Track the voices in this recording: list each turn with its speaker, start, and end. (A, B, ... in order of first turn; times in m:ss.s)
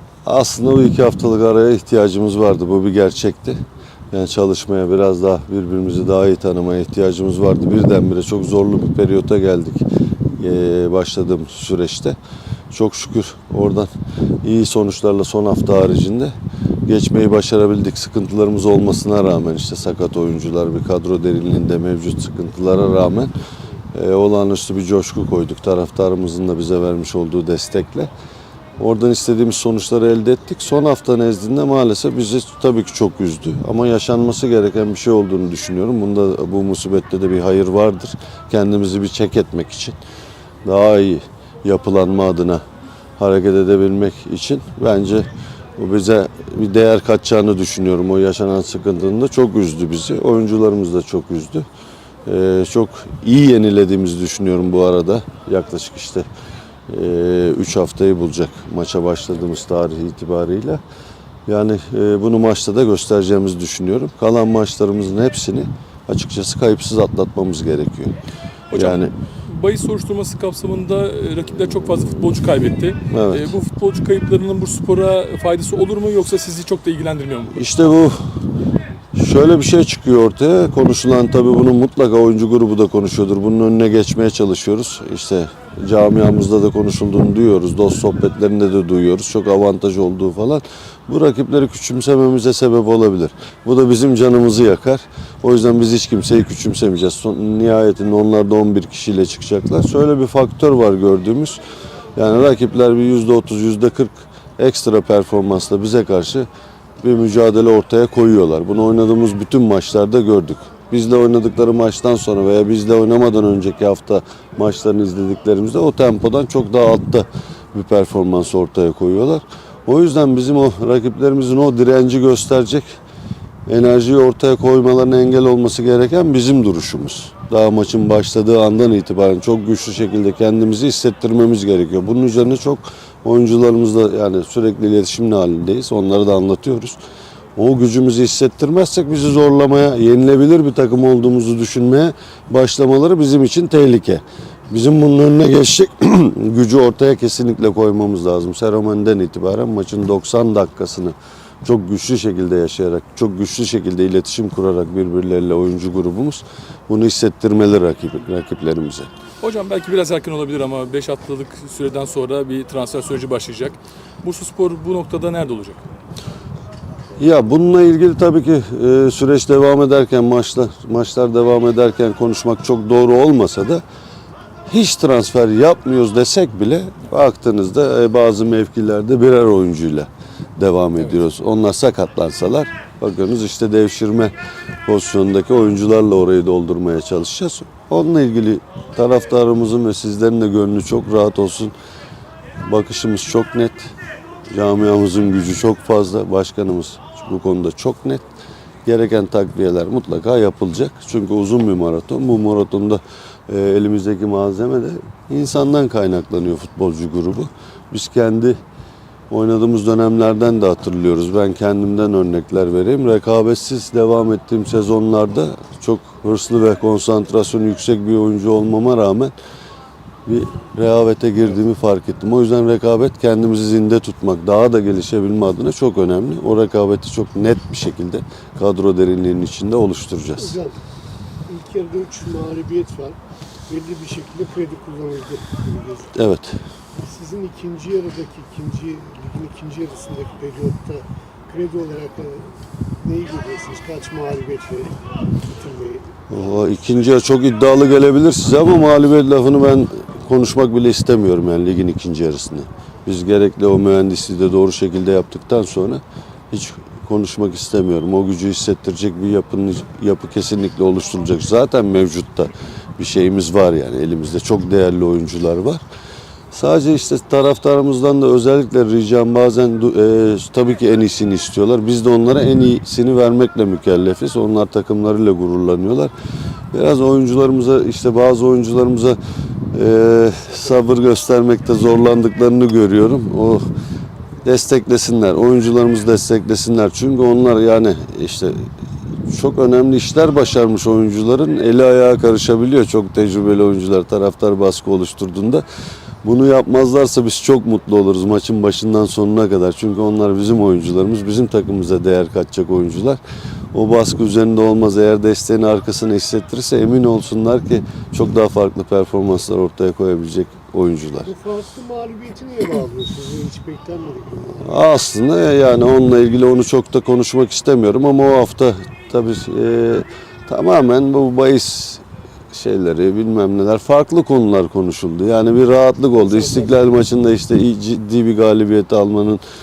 0:00.2-0:03.6 A
0:04.1-0:12.2 A
0:12.7-0:13.9 A
0:14.4-0:16.3 A
0:16.8-0:23.3 A
0:23.9-0:28.1 A
0:28.8-0:40.0 A
0:40.6-0:42.6 A
0:43.2-0:51.6 A
0:52.2-0:56.2 A
0:56.9-1:00.8 A
1:01.5-1:08.1 A
1:08.7-1:17.7 B
1:08.7-1:09.1 A
1:13.1-1:13.5 A
1:17.5-1:18.2 A
1:19.1-1:41.6 A
1:42.2-1:46.5 A
1:47.0-2:03.0 A
2:03.7-2:17.0 A
2:17.6-2:39.1 A
2:39.4-2:45.8 B
2:47.2-2:53.8 A
2:54.7-3:04.3 A
3:04.8-3:11.7 A
3:12.6-3:13.9 A
3:14.5-3:18.2 A
3:18.8-3:28.6 A
3:29.3-3:39.3 A
3:40.2-3:50.6 A
3:50.4-3:50.8 C
3:51.5-3:56.2 C
3:56.1-3:56.6 A
3:56.9-4:02.5 C
4:03.0-4:06.1 C
4:06.3-4:25.8 A
4:26.5-4:36.1 A
4:36.7-4:39.2 A
4:39.7-4:43.6 A
4:44.4-4:48.6 A
4:49.3-4:55.6 A
4:56.2-5:03.2 A
5:03.7-5:11.3 A
5:11.2-5:14.7 C
5:14.5-5:29.4 A
5:26.2-5:26.6 C